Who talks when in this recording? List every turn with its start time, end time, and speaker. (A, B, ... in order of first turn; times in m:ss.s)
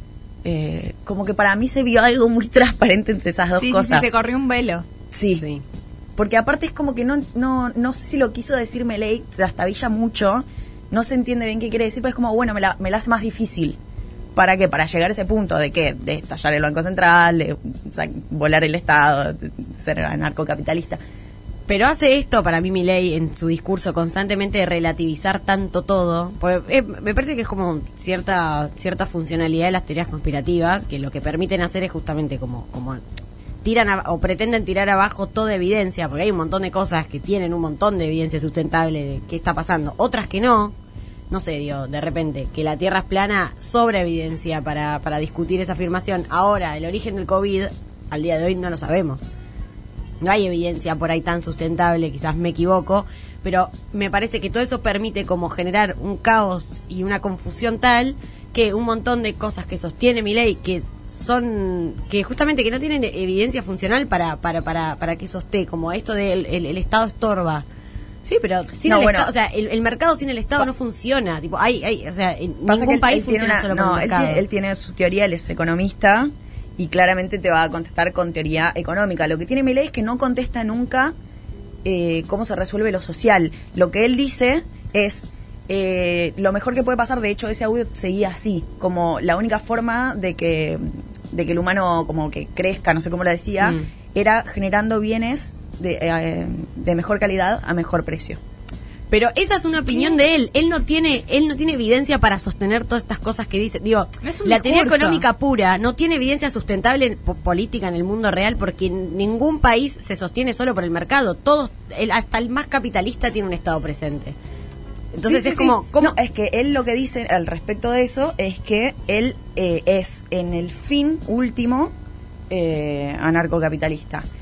0:00.4-0:04.1 A
0:03.6-0:04.8 B
0:05.1-0:05.4 A
0:06.2-0:13.8 A
0:14.3-0:21.0 A
0:21.7-0:33.0 C
0:33.6-0:40.7 C
0:41.3-0:49.2 C
0:50.2-1:07.6 C
1:08.2-1:14.4 C
1:08.8-1:09.3 A
1:12.6-1:21.1 A
1:21.8-1:38.4 A
1:39.1-1:54.3 C
1:44.2-1:45.2 B
1:55.1-1:56.1 C
1:55.3-2:01.9 A
2:02.5-2:04.2 A